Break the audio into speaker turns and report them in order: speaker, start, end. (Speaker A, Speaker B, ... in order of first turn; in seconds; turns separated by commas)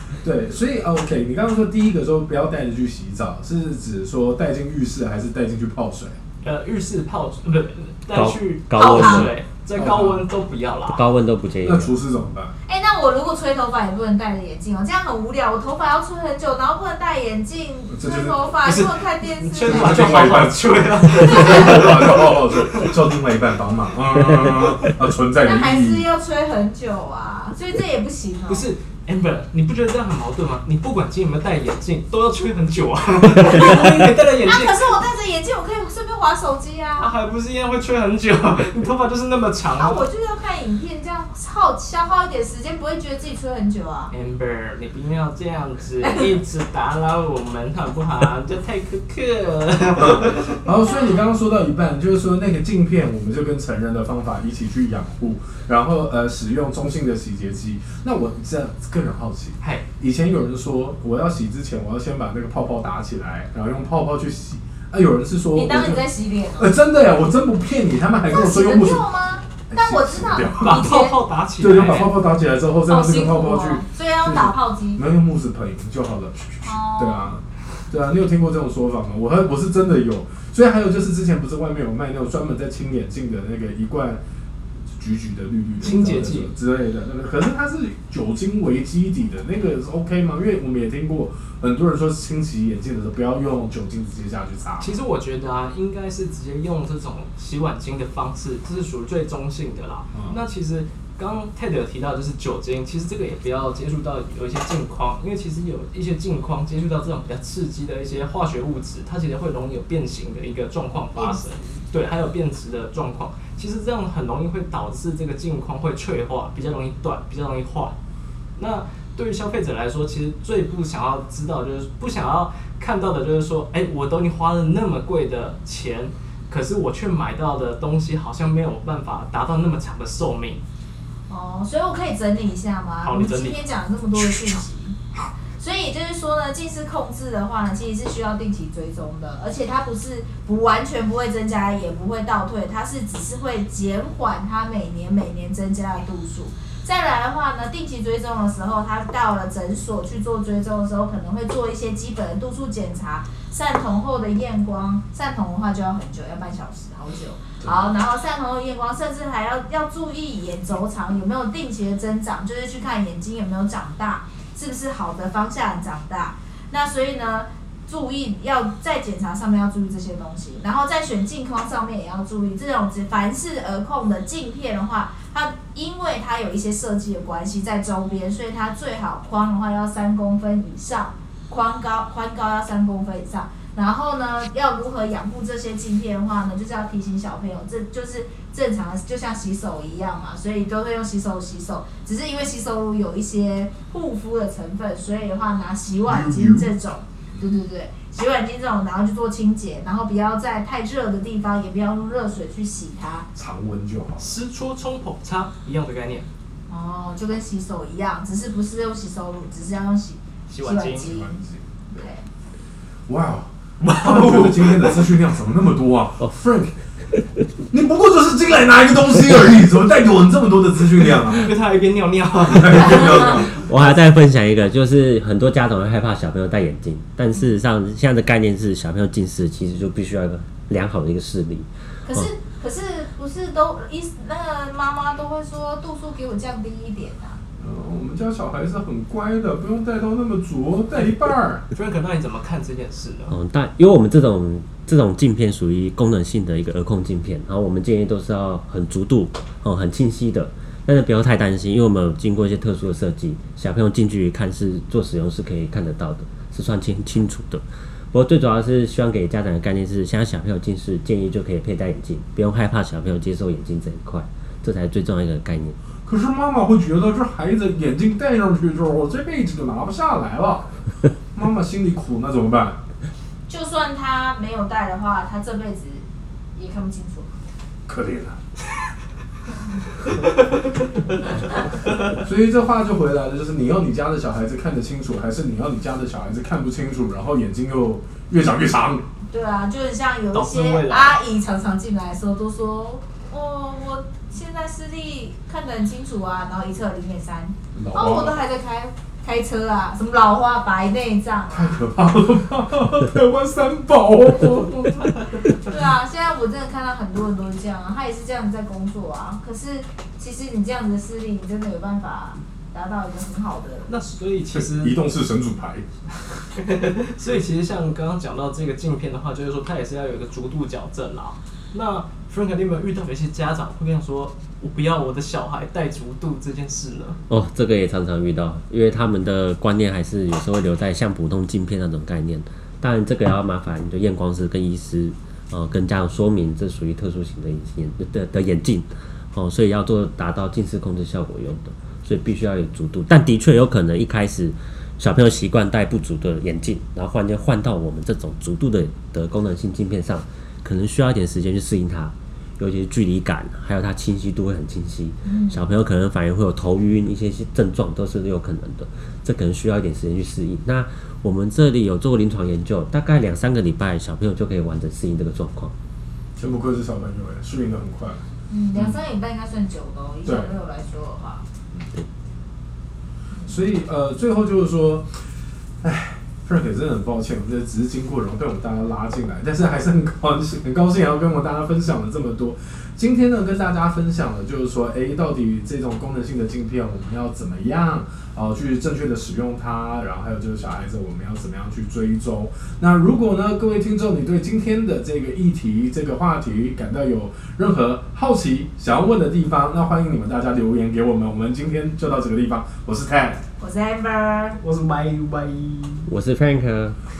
Speaker A: 0.2-6.2, Speaker B: 6.4-11.1, Speaker C: 8.1-9.3, Speaker D: 8.8-9.3, Speaker A: 9.7-10.2, Speaker C: 10.9-11.9, Speaker A: 11.6-12.5, Speaker D: 12.7-20.1, Speaker A: 17.9-18.4, Speaker B: 18.6-22.9, Speaker A: 19.6-26.0, Speaker D: 21.2-21.9, Speaker D: 25.4-28.6, Speaker B: 28.5-35.0, Speaker D: 34.4-37.1, Speaker B: 37.0-40.0, Speaker D: 39.8-44.1, Speaker B: 44.1-50.6, Speaker D: 46.0-46.3, Speaker A: 50.0-66.0, Speaker B: 59.6-59.9, Speaker D: 65.5-66.8, Speaker A: 66.6-69.0, Speaker D: 68.3-71.2, Speaker A: 69.7-70.9, Speaker B: 70.6-72.2, Speaker A: 71.6-84.2, Speaker D: 72.9-75.0, Speaker D: 76.6-77.3, Speaker A: 85.0-94.9, Speaker B: 85.8-86.5, Speaker B: 94.8-117.9, Speaker D: 111.2-111.4, Speaker B: 118.6-130.6, Speaker D: 131.3-135.0, Speaker B: 133.0-133.6, Speaker D: 135.6-203.3, Speaker A: 157.6-157.9, Speaker A: 196.1-196.7, Speaker A: 203.3-204.3, Speaker B: 204.2-206.3, Speaker D: 206.7-211.4, Speaker B: 210.5-211.1, Speaker A: 211.0-212.1, Speaker D: 211.9-212.2, Speaker A: 213.1-216.7, Speaker B: 213.8-215.1, Speaker A: 217.7-221.5, Speaker B: 221.2-223.6, Speaker A: 222.4-223.6, Speaker C: 223.4-232.2, Speaker D: 232.0-237.4, Speaker A: 237.6-241.7, Speaker B: 241.7-243.4, Speaker C: 243.3-265.8, Speaker A: 266.0-270.7, Speaker A: 271.3-272.8, Speaker D: 273.5-277.3, Speaker A: 277.9-278.4, Speaker A: 282.1-289.1, Speaker D: 289.3-301.8, Speaker B: 290.3-291.2, Speaker A: 297.7-298.4, Speaker A: 301.5-305.4, Speaker D: 305.5-313.9, Speaker B: 313.9-315.0, Speaker A: 314.5-315.9, Speaker B: 316.6-327.2, Speaker C: 327.3-365.7, Speaker D: 355.2-355.6, Speaker A: 366.4-368.2, Speaker D: 368.5-371.4, Speaker A: 370.2-370.5, Speaker A: 373.5-375.1, Speaker A: 375.8-403.4, Speaker D: 403.6-404.6, Speaker B: 404.6-406.1, Speaker C: 406.1-407.0